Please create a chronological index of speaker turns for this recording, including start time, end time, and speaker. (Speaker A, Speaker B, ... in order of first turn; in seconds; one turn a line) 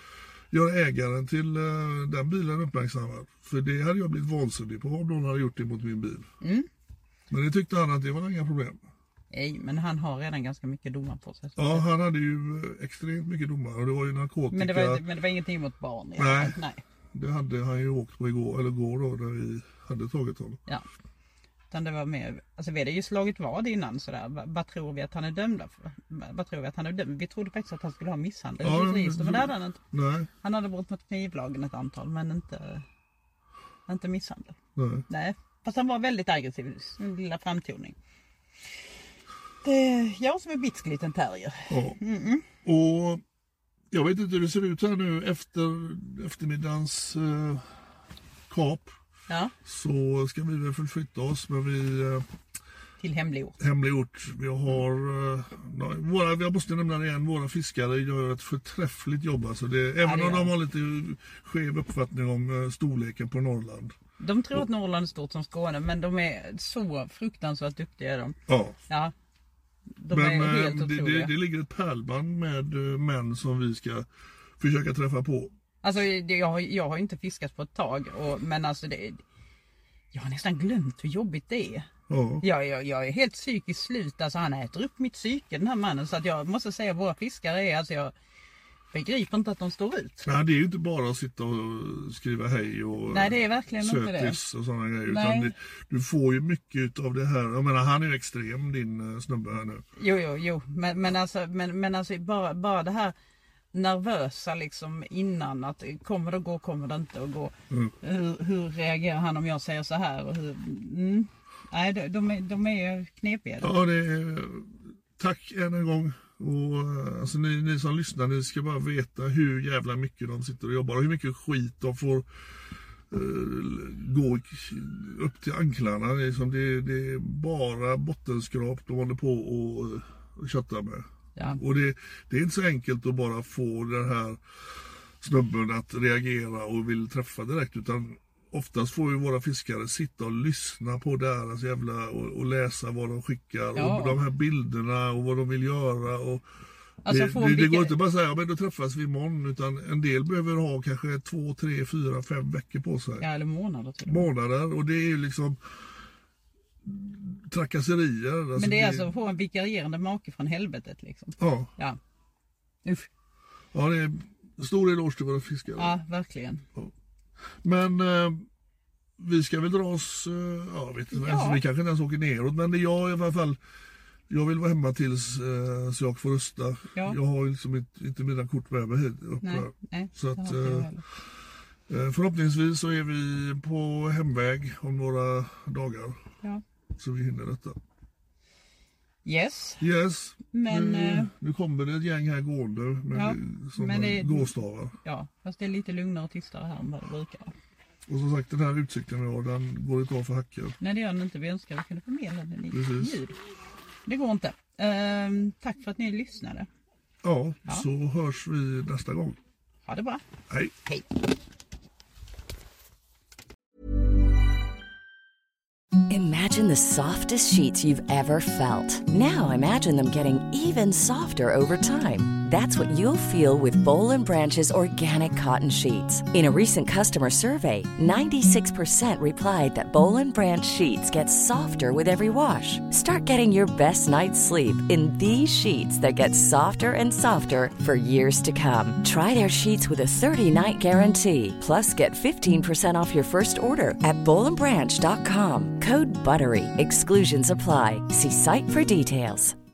Speaker A: 0.5-6.3
Speaker B: 6.4-6.7
Speaker A: 7.3-8.8
Speaker B: 9.3-11.9
Speaker A: 11.6-15.0
Speaker B: 14.5-16.8
Speaker A: 16.2-16.6
Speaker A: 17.1-20.6
Speaker B: 21.7-29.8
Speaker A: 28.6-30.3
Speaker B: 30.4-32.9
Speaker B: 33.9-34.6
Speaker A: 34.8-35.1
Speaker B: 35.1-38.0
Speaker B: 39.6-42.5
Speaker A: 41.7-43.2
Speaker A: 43.9-47.8
Speaker A: 48.5-48.9
Speaker B: 49.3-49.5
Speaker A: 49.6-52.3
Speaker B: 53.0-53.6
Speaker A: 53.6-64.0
Speaker B: 60.0-60.5
Speaker B: 64.2-68.4
Speaker A: 68.5-68.8
Speaker B: 70.0-71.3
Speaker A: 70.1-74.1
Speaker A: 74.6-75.5
Speaker B: 75.8-79.2
Speaker B: 80.1-81.9
Speaker A: 82.1-82.5
Speaker B: 82.4-88.1
Speaker B: 88.9-90.3
Speaker A: 90.2-99.8
Speaker B: 93.1-94.4
Speaker B: 95.1-95.5
Speaker B: 100.0-103.2
Speaker B: 103.7-113.8
Speaker A: 113.6-122.3
Speaker A: 123.1-134.4
Speaker A: 135.2-146.4
Speaker B: 143.8-144.2
Speaker B: 147.0-147.9
Speaker A: 147.1-153.3
Speaker B: 153.2-154.3
Speaker A: 154.1-155.6
Speaker A: 156.8-159.1
Speaker B: 158.6-162.0
Speaker A: 161.4-161.7
Speaker A: 163.7-166.0
Speaker B: 165.8-166.7
Speaker A: 167.6-168.5
Speaker A: 169.2-173.6
Speaker B: 171.1-171.6
Speaker A: 174.3-180.9
Speaker B: 179.4-181.0
Speaker A: 181.9-186.2
Speaker A: 187.0-187.8
Speaker B: 189.2-189.8
Speaker A: 189.8-194.9
Speaker B: 190.5-191.3
Speaker B: 193.1-197.5
Speaker A: 198.1-200.8
Speaker B: 200.8-203.4
Speaker A: 202.7-203.2
Speaker B: 204.1-206.7
Speaker A: 207.2-209.4
Speaker B: 209.9-210.2
Speaker A: 210.5-210.8
Speaker C: 216.1-249.6